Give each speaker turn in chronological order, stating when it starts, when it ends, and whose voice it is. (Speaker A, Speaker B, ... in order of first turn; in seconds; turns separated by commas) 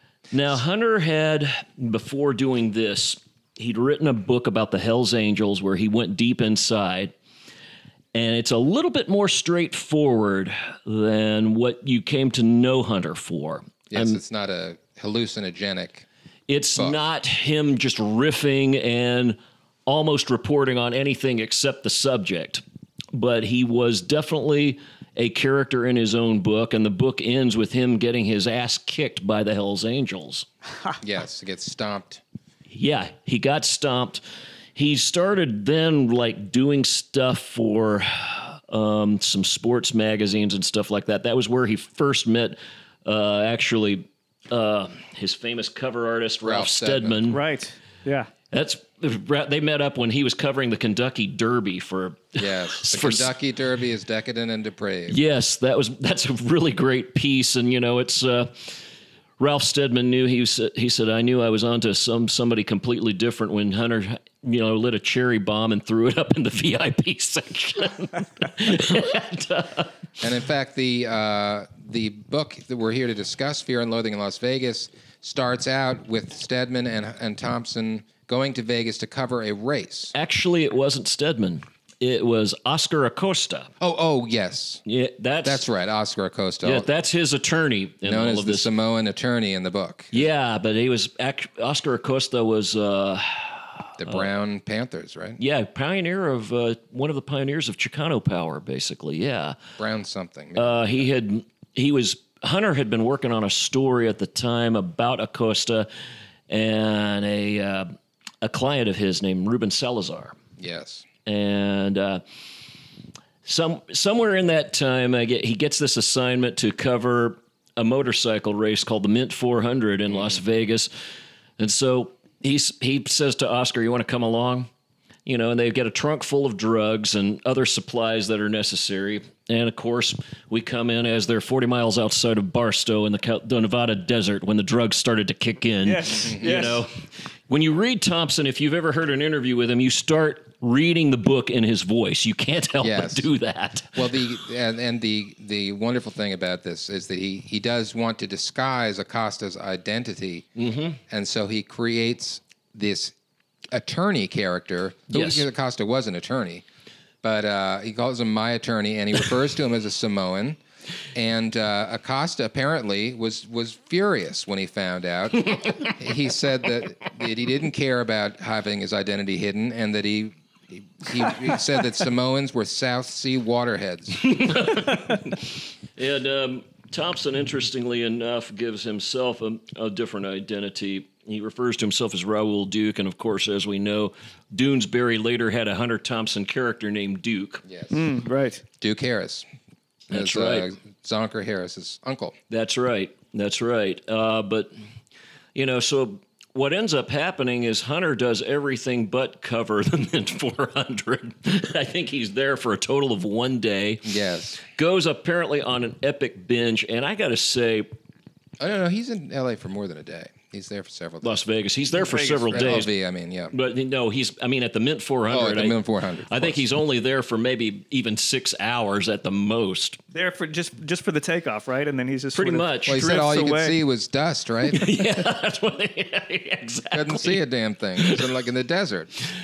Speaker A: 0.3-7.1, Speaker A: 8.1-14.2, Speaker B: 13.9-16.1, Speaker A: 16.5-30.5, Speaker B: 31.0-32.2, Speaker A: 32.7-34.2, Speaker A: 34.8-47.4, Speaker B: 46.4-47.2, Speaker C: 47.3-48.3, Speaker A: 48.5-53.3, Speaker B: 52.4-55.2, Speaker A: 55.1-58.8, Speaker A: 59.4-69.9, Speaker B: 70.2-80.1, Speaker A: 80.1-83.7, Speaker B: 83.8-84.8, Speaker A: 84.9-85.6, Speaker B: 85.4-86.9, Speaker A: 86.6-88.7, Speaker B: 88.1-90.3, Speaker A: 90.1-94.1, Speaker B: 94.0-95.4, Speaker A: 95.4-99.6, Speaker B: 99.8-100.9, Speaker A: 100.6-105.9, Speaker A: 106.5-110.4, Speaker B: 110.6-111.1, Speaker A: 111.3-112.2, Speaker A: 113.5-120.9, Speaker A: 121.6-124.7, Speaker A: 125.3-144.2, Speaker C: 135.8-136.8, Speaker B: 136.2-136.6, Speaker B: 142.8-143.3, Speaker B: 143.9-150.5, Speaker A: 150.6-151.0, Speaker B: 151.1-153.2, Speaker B: 153.7-156.7, Speaker A: 155.1-155.5, Speaker B: 157.2-160.6, Speaker B: 161.1-174.3, Speaker A: 174.2-187.6, Speaker B: 187.7-188.0, Speaker C: 187.9-188.6, Speaker B: 188.8-189.5, Speaker A: 190.1-190.7, Speaker B: 190.1-192.4, Speaker A: 192.5-194.7, Speaker A: 195.6-204.1, Speaker B: 204.1-204.6, Speaker A: 204.6-207.9, Speaker B: 208.6-211.4, Speaker A: 211.2-212.9, Speaker B: 212.1-213.5, Speaker C: 212.1-212.6, Speaker A: 213.5-220.0, Speaker B: 215.3-216.6, Speaker C: 220.1-223.8, Speaker A: 222.3-223.0, Speaker B: 222.9-224.9, Speaker A: 224.7-227.4, Speaker B: 226.9-229.1, Speaker A: 228.0-228.3